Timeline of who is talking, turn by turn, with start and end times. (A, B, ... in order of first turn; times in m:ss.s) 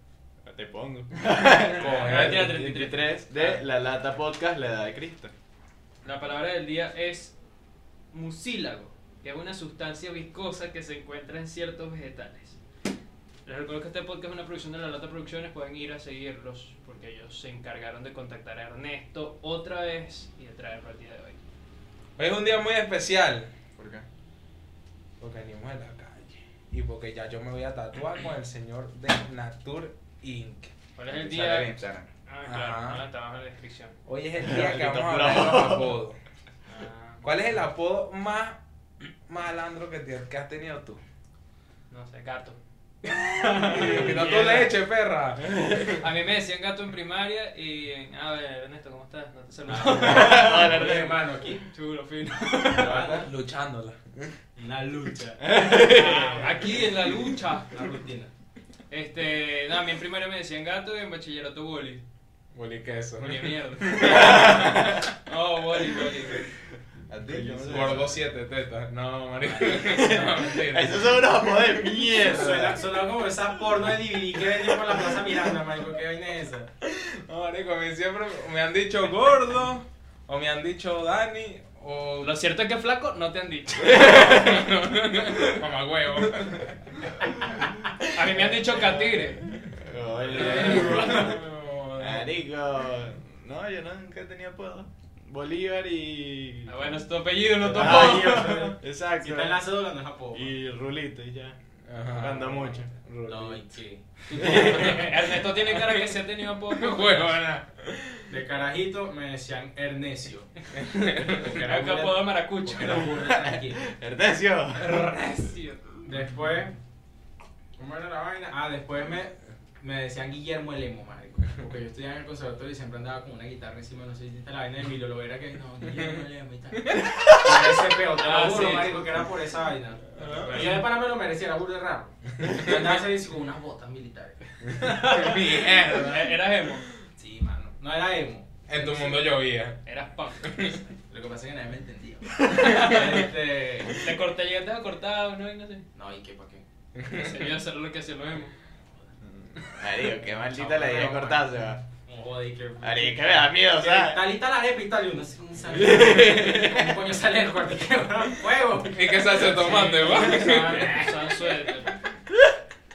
0:00.4-0:05.3 A
0:01.6-0:03.6 B
0:01.8-0:02.5 C
0:06.0-0:07.4 B
0:08.1-0:12.6 B
0:13.4-0:21.4 B
0:22.2-0:23.5 C
0:23.8-0:24.0 A
0:25.2-0:30.7 C
0:31.0-0:31.7 B
0:31.1-0:32.1 A
0:32.3-0:33.9 B
0:32.5-0:33.0 C
0:34.1-0:36.2 C
0:34.4-0:35.9 A
0:36.7-0:37.2 B
0:37.2-0:41.0 C
0:41.9-0:42.6 B
0:43.0-0:46.0 C
0:43.5-0:44.5 D
0:43.6-0:44.7 B
0:45.6-0:50.8 B
0:49.7-0:51.7 D
0:49.8-0:51.2 A
0:51.7-0:53.2 B
0:52.6-0:53.3 D
0:53.2-0:54.3 C
0:54.6-0:56.7 D
0:55.4-0:56.3 A
0:55.8-0:57.8 B
0:57.7-0:58.3 D
0:58.9-1:02.0 B
1:02.5-1:04.9 C
1:03.2-1:06.5 B
1:04.0-1:05.0 A
1:07.1-1:08.2 A
1:07.3-1:08.0 D
1:07.7-1:11.2 C
1:09.5-1:12.8 A
1:12.2-1:16.7 D
1:16.8-1:22.3 C
1:22.2-1:24.7 B
1:23.8-1:24.6 A
1:23.8-1:27.1 C
1:28.0-1:28.3 C
1:28.1-1:29.4 B
1:28.7-1:31.3 A
1:30.3-1:31.3 B
1:30.3-1:31.3 D
1:30.3-1:32.3 C
1:32.0-1:37.0 A
1:36.6-1:38.7 B
1:37.6-1:39.6 A
1:37.6-1:40.5 D
1:40.3-1:42.9 A
1:41.9-1:43.6 C
1:43.3-1:45.4 D
1:44.3-1:46.1 C
1:44.5-1:47.6 B
1:46.7-1:48.2 C
1:48.3-1:53.9 D
1:50.7-1:51.6 C
1:51.4-1:53.2 B
1:53.1-1:55.2 A
1:54.7-1:56.0 B
1:56.0-1:56.7 D
1:57.8-2:14.4 D
2:05.9-2:06.2 C
2:06.8-2:07.3 C
2:08.1-2:09.2 B
2:10.1-2:10.8 C
2:10.2-2:10.8 B
2:12.4-2:13.0 C
2:14.7-2:16.3 C
2:14.8-2:16.9 B
2:17.2-2:18.5 D
2:18.7-2:19.8 C
2:18.8-2:19.2 B
2:19.8-2:20.8 B
2:20.4-2:20.8 C
2:21.1-2:24.0 D
2:22.5-2:23.2 B
2:22.6-2:23.0 C
2:23.9-2:25.8 B
2:25.9-2:26.6 D
2:26.9-2:27.6 C
2:27.1-2:28.5 B
2:29.3-2:31.8 A
2:30.4-2:31.5 D
2:32.0-2:41.2 D
2:32.8-2:34.2 A
2:35.7-2:36.9 A
2:38.9-2:41.0 C
2:39.4-2:42.0 B